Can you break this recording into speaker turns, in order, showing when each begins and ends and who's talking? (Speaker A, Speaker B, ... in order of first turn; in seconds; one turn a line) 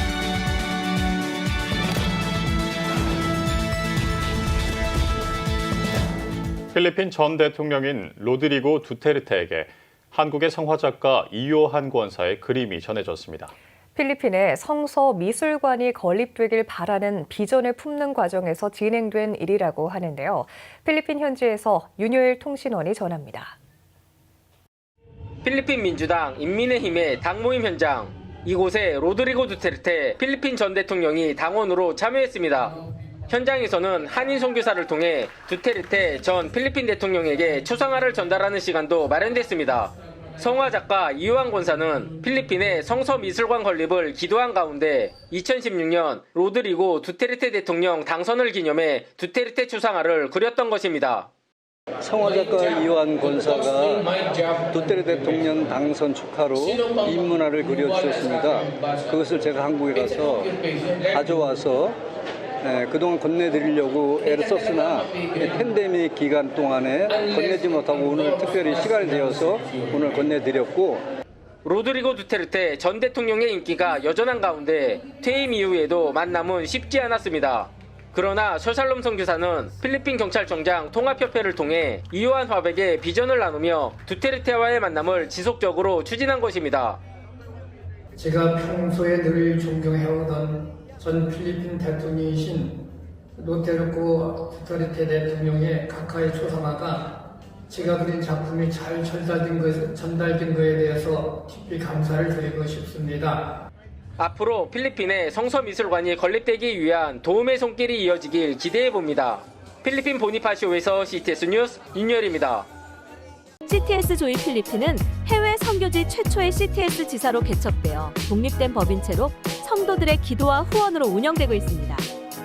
Speaker A: 6.7-13.5
Speaker B: 13.9-23.6
Speaker C: 25.4-51.3
Speaker D: 52.0-62.0
Speaker D: 62.6-71.0
Speaker C: 71.6-87.0
Speaker E: 88.1-103.6
Speaker C: 104.2-112.7
Speaker F: 113.6-122.1